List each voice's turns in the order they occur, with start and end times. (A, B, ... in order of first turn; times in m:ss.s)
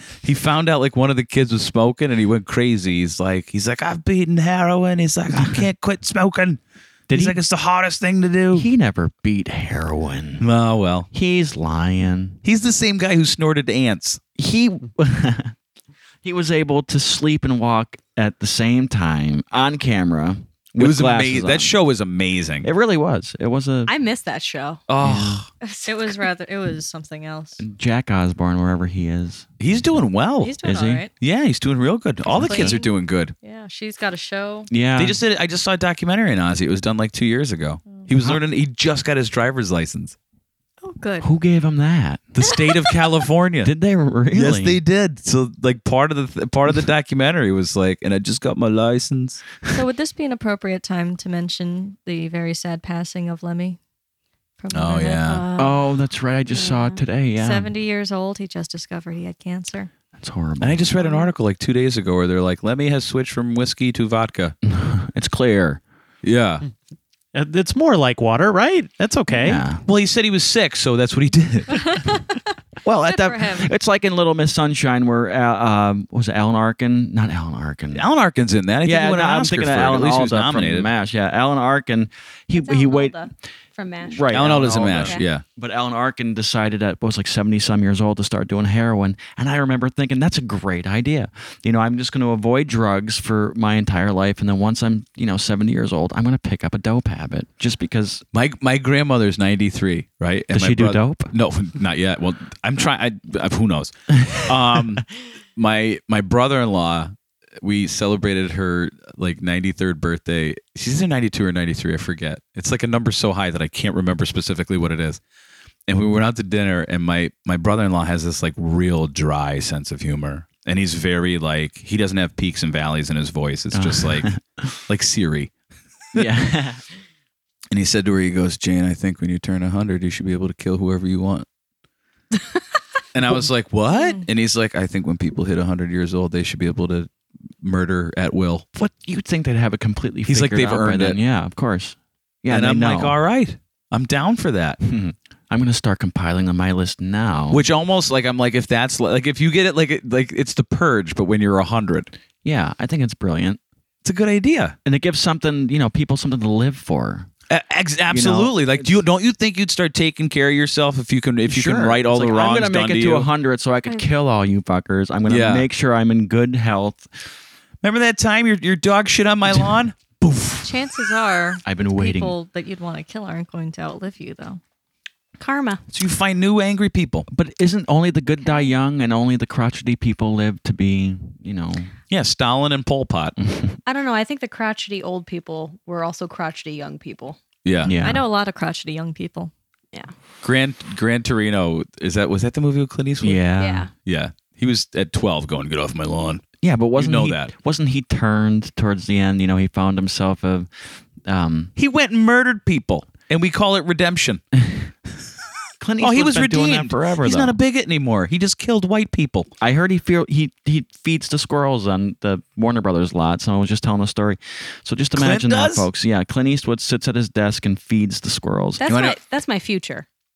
0:00.2-0:06.6 A
0:05.4-0:05.6 B
0:07.1-0:07.4 B
0:07.1-0:08.7 A
0:08.5-0:10.4 B
0:10.4-0:11.1 A
0:11.1-0:12.4 B
0:12.4-0:14.2 A
0:14.4-0:15.5 B
0:16.2-0:21.7 B
0:20.8-0:22.7 A
0:22.6-0:24.0 B
0:23.8-0:24.8 C
0:24.9-0:25.5 A
0:25.0-0:25.4 B
0:25.6-0:26.3 C
0:25.8-0:27.6 D
0:27.6-0:29.5 B
0:29.6-0:30.6 A
0:30.4-0:31.1 D
0:30.6-0:31.0 B
0:31.2-0:33.3 A
0:32.3-0:32.8 B
0:32.3-0:34.7 D
0:34.7-0:35.2 B
0:35.0-0:40.2 A
0:40.8-0:41.3 D
0:41.2-0:42.3 B
0:42.3-0:43.7 A
0:43.6-0:44.8 B
0:44.3-0:49.4 A
0:49.7-0:53.8 D
0:54.6-0:55.4 D
0:54.7-0:55.5 A
0:55.3-0:55.9 C
0:55.6-0:57.7 B
0:56.5-0:57.0 C
0:57.4-0:59.9 D
1:00.2-1:00.9 B
1:00.6-1:04.6 A
1:04.6-1:05.8 B
1:06.2-1:06.6 A
1:07.3-1:09.6 E
1:09.4-1:09.8 B
1:09.8-1:12.1 A
1:11.7-1:12.4 D
1:12.8-1:18.1 B
1:13.1-1:13.7 D
1:17.9-1:20.9 A
1:18.8-1:23.2 B
1:22.5-1:25.2 C
1:24.0-1:38.2 B
1:24.3-1:25.4 A
1:38.3-1:55.2 A
1:40.5-1:41.3 B
1:55.9-2:04.3 A
2:03.7-2:04.6 B
2:04.9-2:05.5 A
2:06.1-2:06.8 B
2:07.7-2:11.4 A
2:13.1-2:17.1 A
2:13.9-2:14.2 D
2:17.6-2:18.6 A
2:18.7-2:23.1 B
2:20.3-2:21.2 A
2:22.5-2:24.8 A
2:24.8-2:27.6 B
2:27.5-2:32.1 A
2:32.4-2:33.6 B
2:34.0-2:34.8 A
2:34.8-2:37.3 B
2:37.5-2:43.3 A
2:38.1-2:39.0 B
2:41.5-2:47.1 B
2:45.3-2:45.6 A
2:47.8-2:50.7 A
2:50.6-2:54.6 D
2:51.6-2:52.3 B
2:55.4-2:55.8 C
2:55.9-2:57.3 A
2:57.3-3:01.9 B
2:58.4-2:58.7 D
3:02.1-3:03.4 A
3:03.4-3:03.8 B
3:03.8-3:07.4 C
3:07.6-3:07.9 A
3:07.8-3:08.2 B
3:08.0-3:09.5 D
3:10.4-3:13.4 A
3:13.2-3:13.9 B
3:13.6-3:13.9 C
3:14.0-3:16.4 A
3:16.6-3:20.7 B
3:17.0-3:17.5 A
3:21.2-3:21.7 B
3:21.8-3:24.4 A
3:25.8-3:27.6 B
3:26.0-3:29.5 A
3:29.6-3:38.8 B
3:35.1-3:35.9 A
3:38.8-3:40.0 C
3:38.8-3:39.2 A